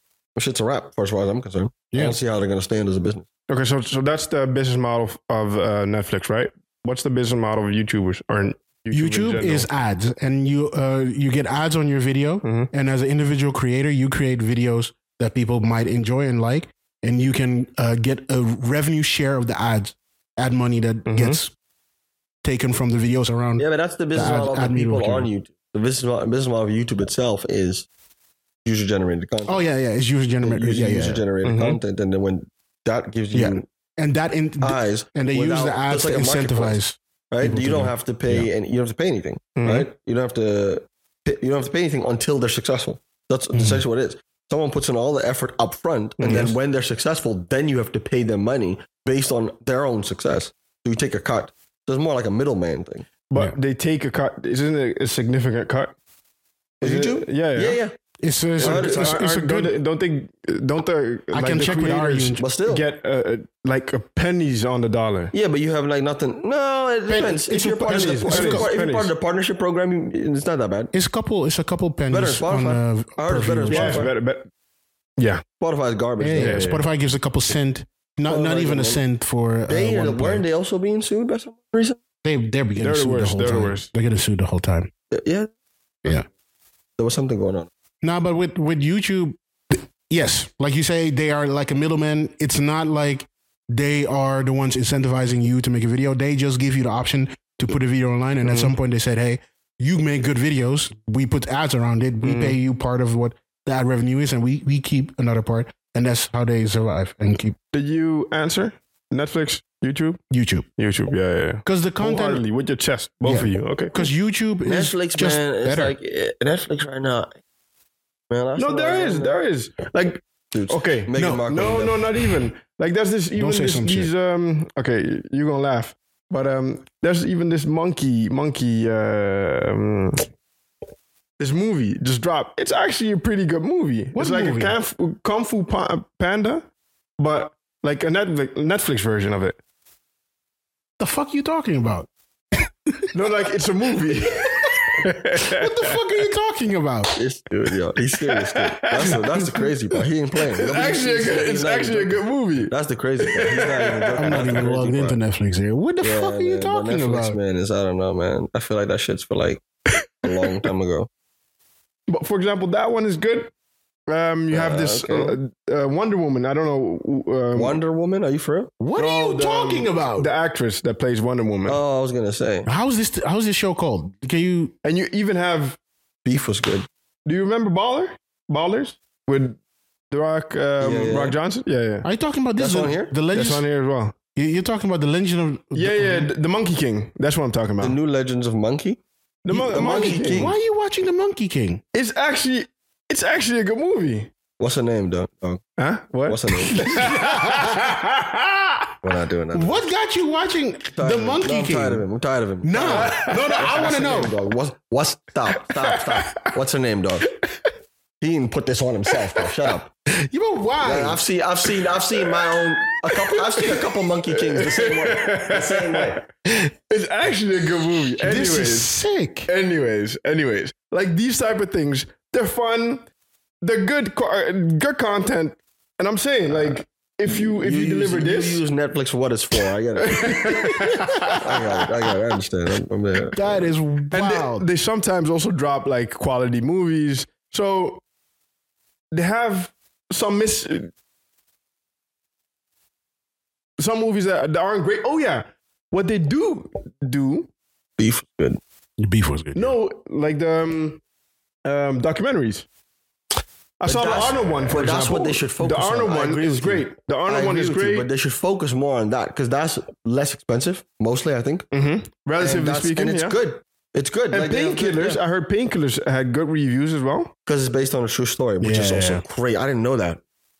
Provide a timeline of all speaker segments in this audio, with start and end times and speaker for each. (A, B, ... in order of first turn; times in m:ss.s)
0:00.4-0:03.3 A
0:01.9-0:02.2 B
0:03.5-0:09.7 C
0:08.9-0:21.5 B
0:12.4-0:12.7 C
0:21.1-0:21.4 C
0:22.4-0:25.3 B
0:23.6-0:27.9 A
0:28.6-0:29.6 A
0:29.5-0:31.2 B
0:30.4-0:33.7 A
0:31.4-0:31.8 C
0:33.3-0:38.5 B
0:34.6-0:36.8 A
0:37.3-0:53.1 A
0:39.6-0:39.9 C
0:43.5-0:43.8 B
0:46.2-0:46.6 C
0:53.3-0:55.9 C
0:56.8-0:57.8 C
0:56.8-0:57.9 A
0:58.2-0:59.8 B
0:58.6-1:05.3 C
0:58.6-0:59.2 A
1:01.3-1:02.4 B
1:02.4-1:02.9 A
1:05.3-1:10.9 A
1:07.1-1:08.7 B
1:07.8-1:09.1 C
1:10.9-1:14.1 B
1:12.1-1:14.1 A
1:13.7-1:14.5 C
1:15.2-1:15.4 C
1:15.6-1:16.7 A
1:16.2-1:20.4 B
1:16.4-1:16.8 C
1:18.3-1:19.0 A
1:19.7-1:22.0 A
1:22.2-1:24.9 B
1:22.8-1:23.9 C
1:25.1-1:25.5 A
1:27.0-1:27.7 A
1:28.0-1:47.6 B
1:38.4-1:38.7 C
1:42.2-1:42.6 C
1:47.7-1:50.2 C
1:50.3-1:50.7 B
1:50.8-1:54.1 C
1:51.6-1:52.4 B
1:53.2-1:55.9 B
1:54.6-1:57.3 A
1:58.3-1:59.4 A
1:58.6-2:10.3 C
2:00.5-2:02.1 A
2:01.2-2:01.4 B
2:03.4-2:04.1 B
2:11.4-2:16.7 C
2:14.2-2:14.8 B
2:17.2-2:19.6 C
2:21.0-2:23.1 B
2:23.1-2:25.9 C
2:25.5-2:27.2 B
2:27.2-2:35.2 A
2:28.3-2:29.2 C
2:30.6-2:34.7 C
2:34.2-2:37.4 B
2:36.0-2:39.6 A
2:40.2-2:41.1 A
2:42.1-2:43.5 C
2:44.1-2:47.8 C
2:44.5-2:45.4 A
2:47.6-2:48.7 A
2:48.8-2:50.3 B
2:49.0-2:51.8 C
2:51.7-2:52.7 A
2:52.7-2:54.7 B
2:54.8-2:55.8 C
2:56.2-2:56.9 A
2:57.3-2:59.6 C
3:00.1-3:02.1 C
3:00.8-3:01.4 A
3:02.0-3:03.6 B
3:02.6-3:03.1 A
3:03.3-3:04.2 C
3:04.4-3:06.3 B
3:05.8-3:08.0 C
3:07.8-3:09.0 A
3:09.4-3:10.5 C
3:09.5-3:11.8 B
3:09.7-3:10.6 A
3:11.9-3:14.3 C
3:14.6-3:15.6 A
3:15.8-3:18.9 C
3:16.3-3:17.0 A
3:16.9-3:17.8 B
3:19.0-3:19.9 A
3:19.5-3:22.0 B
3:21.0-3:27.3 A
3:22.6-3:24.3 B
3:22.9-3:23.8 C
3:25.8-3:26.4 C
3:28.2-3:29.9 A
3:30.3-3:31.2 B
3:30.8-3:36.2 A
3:33.2-3:38.9 C
3:38.2-3:39.5 B
3:39.5-3:43.0 C
3:43.6-3:48.6 C
3:47.3-3:53.7 A
3:50.0-3:51.6 C
3:53.3-3:54.6 B
3:54.1-3:58.0 C
3:59.1-4:00.9 C
4:03.8-4:07.5 C
4:08.0-4:08.6 A
4:09.0-4:09.8 B
4:09.6-4:11.0 C
4:11.6-4:12.7 C
4:13.8-4:18.1 C
4:13.8-4:21.7 A
4:21.7-4:23.4 C
4:22.4-4:25.2 A
4:24.3-4:27.3 C
4:27.5-4:30.2 A
4:28.6-4:29.2 B